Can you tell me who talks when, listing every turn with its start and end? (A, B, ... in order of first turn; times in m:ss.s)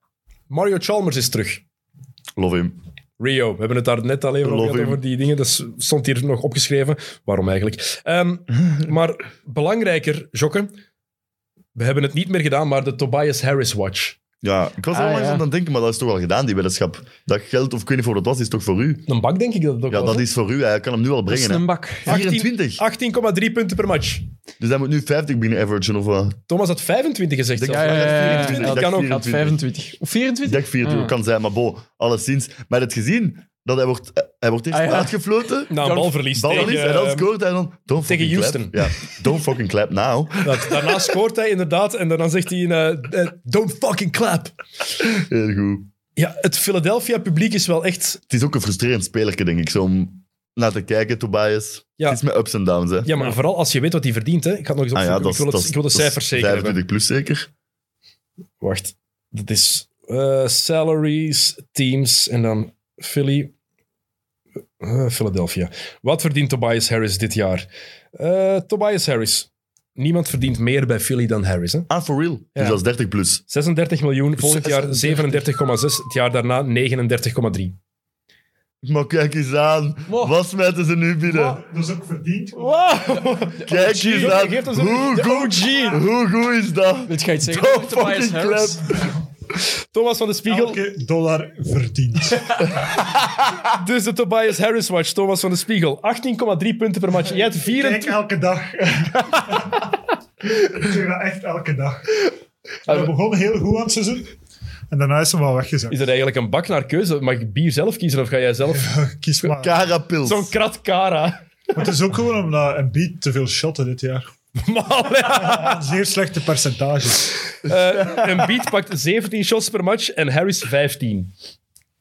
0:00.5-0:01.6 A
0:02.4-0:02.8 B
0:03.2-0:10.7 A
0:04.4-0:05.0 B
0:11.7-0:14.2 A
0:14.4-0:19.0 B
0:14.9-0:15.4 C
0:19.1-0:20.2 A
0:19.9-0:22.8 B
0:21.3-0:22.2 C
0:22.1-0:24.2 A
0:24.6-0:26.4 B
0:26.5-0:29.2 A
0:27.6-0:29.6 B
0:27.7-0:31.1 C
0:30.4-0:35.8 B
0:34.7-0:36.8 C
0:35.7-0:37.3 A
0:36.3-0:41.0 B
0:38.0-0:38.8 A
0:40.4-0:44.5 A
0:45.2-0:45.9 B
0:46.2-0:48.2 A
0:48.3-0:53.1 B
0:53.0-0:56.8 A
0:54.9-0:57.5 B
0:58.6-1:03.5 A
1:04.8-1:11.9 A
1:11.9-1:13.4 B
1:13.5-1:17.8 A
1:14.4-1:15.4 C
1:18.8-1:21.6 B
1:20.1-1:20.4 C
1:21.3-1:22.8 D
1:22.5-1:26.0 A
1:23.6-1:29.0 B
1:23.8-1:24.4 C
1:27.0-1:28.8 C
1:29.9-1:30.8 A
1:30.5-1:32.6 D
1:33.7-1:38.2 A
1:37.5-1:39.9 D
1:40.4-1:42.3 D
1:42.8-1:44.3 D
1:42.9-1:43.1 A
1:44.9-1:46.0 D
1:45.9-1:49.6 A
1:48.7-1:49.8 D
1:49.6-1:50.5 B
1:50.2-1:51.4 A
1:51.7-1:54.3 D
1:54.6-1:55.8 A
1:55.3-1:57.3 D
1:57.6-2:01.3 A